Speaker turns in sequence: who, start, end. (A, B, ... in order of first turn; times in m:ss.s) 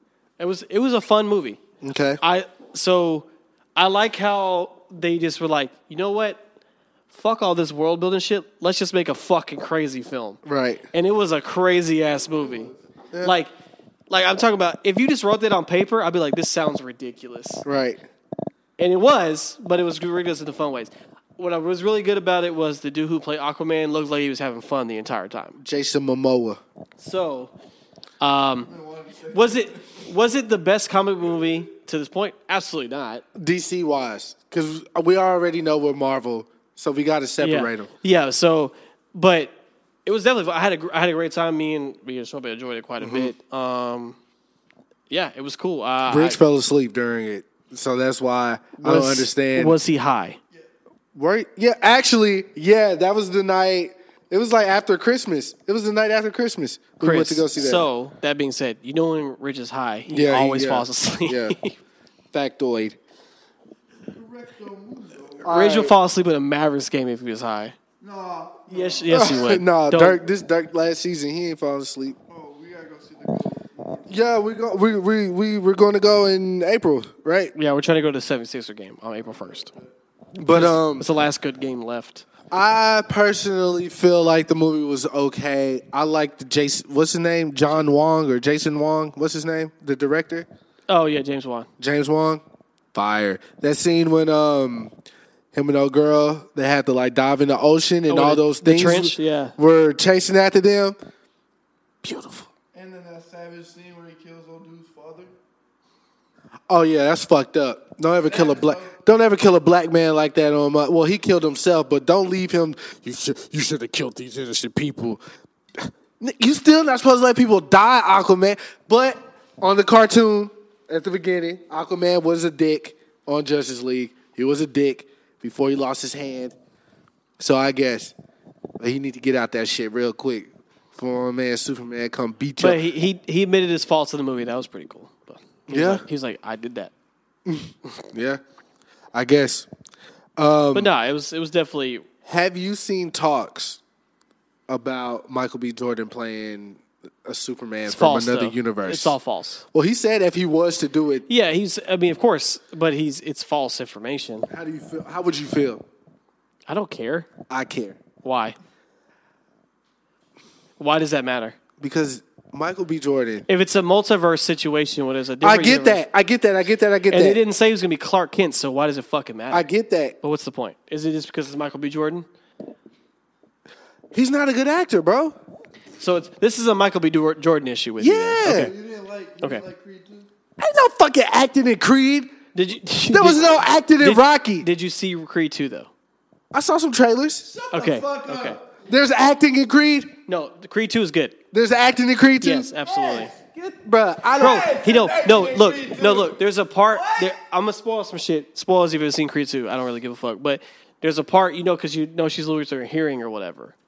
0:00.4-0:01.6 A
0:01.8-0:02.2 B
0:02.2-0:06.4 A
0:07.1-0:10.4 A
0:10.4-0:10.9 B
0:10.9-0:13.5 A
0:12.3-0:13.0 C
0:13.1-0:13.4 B
0:14.1-0:17.6 A
0:17.6-0:18.0 B
0:18.8-0:25.6 A
0:25.6-0:26.6 B
0:27.0-0:27.5 A
0:28.2-0:28.7 A
0:28.7-0:30.0 C
0:29.3-0:33.2 A
0:33.4-0:37.9 B
0:37.4-0:39.5 A
0:40.0-0:44.2 A
0:43.0-0:43.3 B
0:45.1-0:46.4 A
0:46.1-0:49.8 B
0:48.8-0:50.4 A
0:51.2-0:57.9 B
0:57.0-1:01.8 A
1:00.1-1:01.6 B
1:02.3-1:03.0 B
1:04.1-1:05.6 C
1:05.4-1:05.9 B
1:05.4-1:07.8 A
1:08.0-1:09.4 C
1:08.7-1:10.2 A
1:09.1-1:12.2 B
1:12.3-1:14.2 C
1:14.1-1:17.5 B
1:17.6-1:19.7 A
1:19.3-1:19.9 C
1:20.4-1:21.1 B
1:20.5-1:22.3 A
1:22.5-1:30.5 B
1:30.9-1:31.7 A
1:31.8-1:32.4 B
1:32.9-1:34.9 B
1:35.5-1:41.0 B
1:38.1-1:39.6 A
1:42.0-1:42.5 B
1:42.7-1:45.3 C
1:46.7-1:55.2 B
1:48.2-1:49.0 C
1:55.8-2:06.6 B
2:07.4-2:08.1 B
2:08.8-2:12.8 B
2:12.6-2:16.9 A
2:15.7-2:16.0 B
2:17.5-2:18.4 B
2:19.1-2:19.7 B
2:20.4-2:20.9 B
2:20.7-2:22.0 A
2:22.2-2:23.8 B
2:24.7-2:29.2 B
2:27.9-2:29.6 A
2:29.7-2:31.3 B
2:31.3-2:34.5 A
2:34.5-2:35.8 B
2:36.7-2:37.3 A
2:37.5-2:38.0 B
2:38.2-2:38.6 A
2:40.8-2:41.6 A
2:41.8-2:43.5 B
2:43.5-2:46.0 A
2:45.4-2:47.4 B
2:47.1-2:49.7 A
2:49.5-2:50.2 B
2:50.2-2:52.3 A
2:54.1-2:55.4 B
2:56.0-2:58.7 A
2:58.0-2:58.7 B
2:58.4-3:00.3 C
2:59.4-2:59.7 A
3:00.6-3:02.3 B
3:02.6-3:05.9 A
3:03.1-3:04.7 B
3:06.5-3:07.5 B
3:07.4-3:08.8 C
3:07.7-3:08.6 A
3:08.8-3:10.2 B
3:10.3-3:11.4 A
3:11.5-3:14.7 B
3:12.4-3:13.3 A
3:13.0-3:13.3 C
3:14.2-3:17.4 C
3:14.4-3:23.8 A